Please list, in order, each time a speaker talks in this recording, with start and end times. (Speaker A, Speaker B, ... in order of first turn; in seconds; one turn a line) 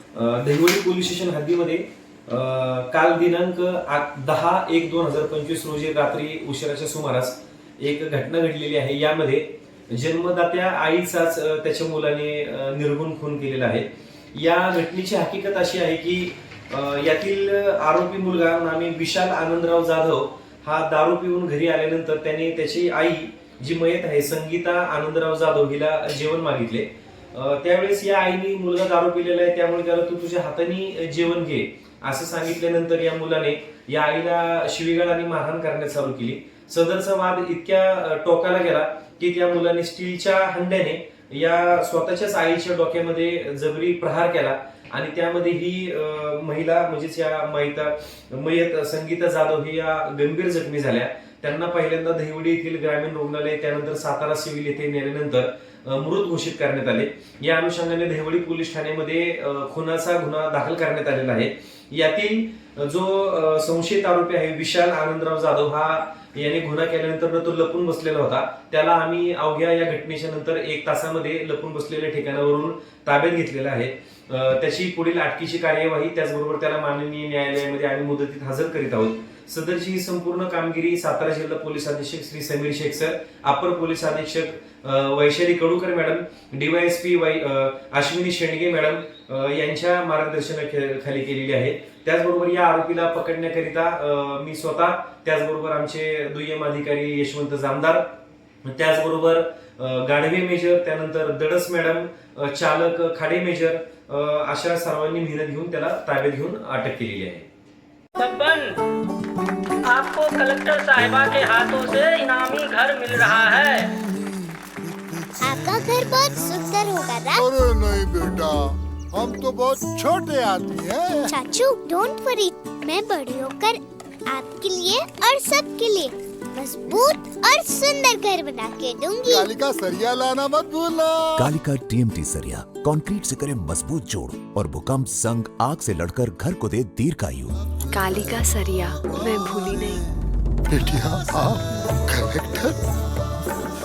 Speaker A: 0.2-98.0
Speaker A: 98.7-107.5
Speaker B: 108.2-108.8
Speaker B: 109.9-113.9
Speaker C: 115.4-117.5
Speaker D: 117.3-121.3
Speaker C: 121.3-129.5
Speaker D: 129.3-131.5
Speaker E: 131.4-137.6
Speaker F: 137.9-140.1
Speaker D: 140.7-142.8